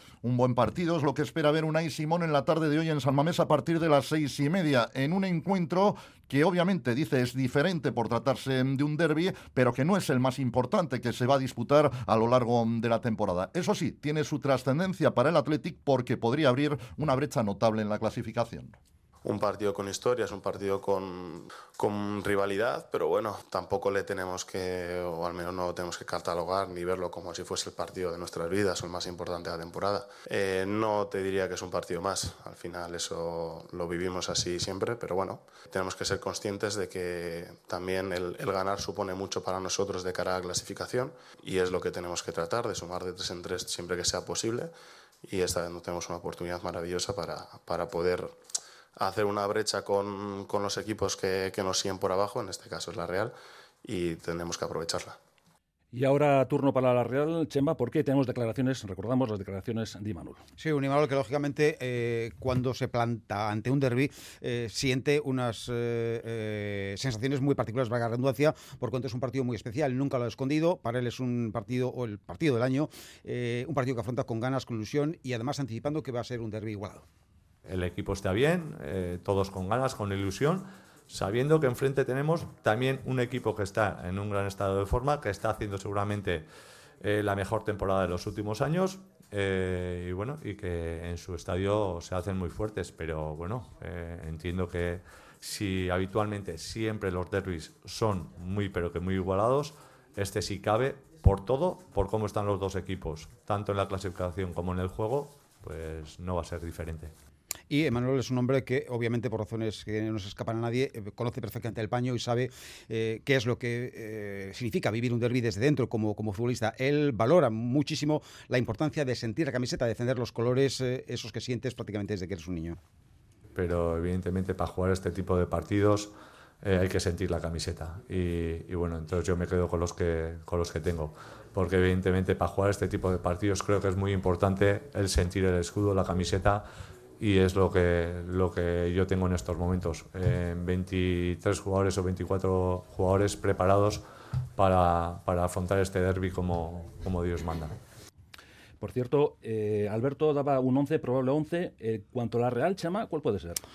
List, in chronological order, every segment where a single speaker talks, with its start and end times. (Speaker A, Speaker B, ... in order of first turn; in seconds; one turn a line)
Speaker A: 0.2-18.8
Speaker B: 19.2-44.7
Speaker B: 45.2-48.4
Speaker B: 49.0-53.3
Speaker B: 53.8-55.2
Speaker C: 55.9-60.4
Speaker D: 60.6-77.0
Speaker E: 77.7-86.5
Speaker E: 87.0-107.1
Speaker D: 107.7-122.8
Speaker E: 123.5-136.7
Speaker E: 137.2-144.0
Speaker E: 144.6-147.8
Speaker C: 148.8-153.6